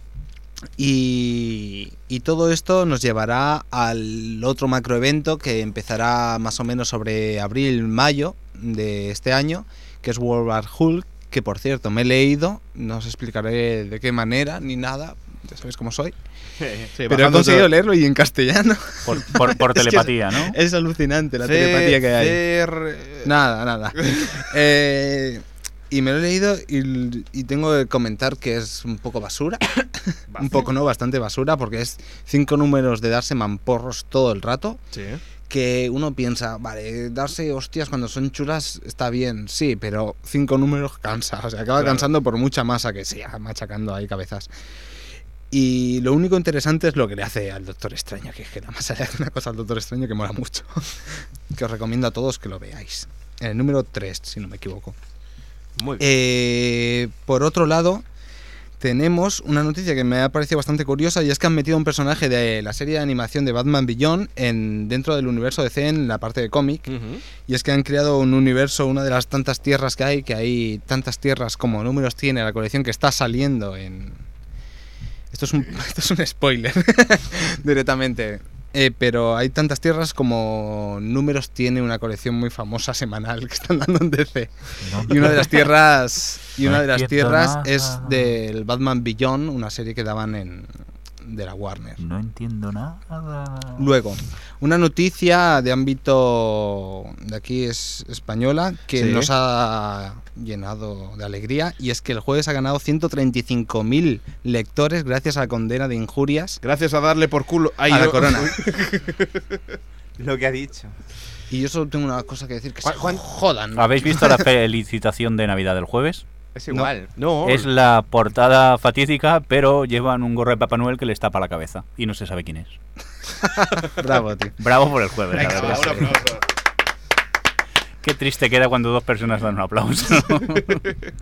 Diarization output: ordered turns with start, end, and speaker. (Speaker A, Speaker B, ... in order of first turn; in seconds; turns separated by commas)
Speaker A: 0.8-16.2, Speaker B: 16.6-16.9, Speaker C: 16.9-17.7, Speaker A: 17.1-19.6, Speaker D: 19.1-20.6, Speaker C: 19.7-20.1, Speaker A: 20.4-22.4, Speaker C: 21.4-23.3, Speaker A: 23.2-34.8, Speaker C: 24.0-24.3, Speaker C: 30.3-30.7, Speaker C: 34.9-35.2, Speaker A: 35.5-44.5, Speaker C: 41.8-42.1, Speaker A: 45.5-51.0, Speaker A: 51.5-55.0, Speaker C: 55.8-56.0, Speaker A: 56.0-58.0, Speaker A: 58.8-74.2, Speaker C: 66.9-67.2, Speaker A: 75.3-90.7, Speaker D: 84.8-85.7, Speaker D: 86.6-88.3, Speaker A: 91.2-92.0, Speaker D: 92.0-93.8, Speaker A: 93.8-106.6, Speaker C: 99.0-99.3, Speaker C: 106.6-109.3, Speaker A: 107.9-108.5, Speaker B: 108.1-108.7, Speaker B: 110.2-110.9, Speaker A: 111.5-114.4, Speaker D: 113.7-116.2, Speaker B: 116.5-117.1, Speaker C: 116.7-117.7, Speaker D: 117.4-122.8, Speaker A: 123.4-124.5, Speaker D: 124.6-126.2, Speaker C: 125.3-126.5, Speaker A: 125.7-126.0, Speaker D: 128.0-130.9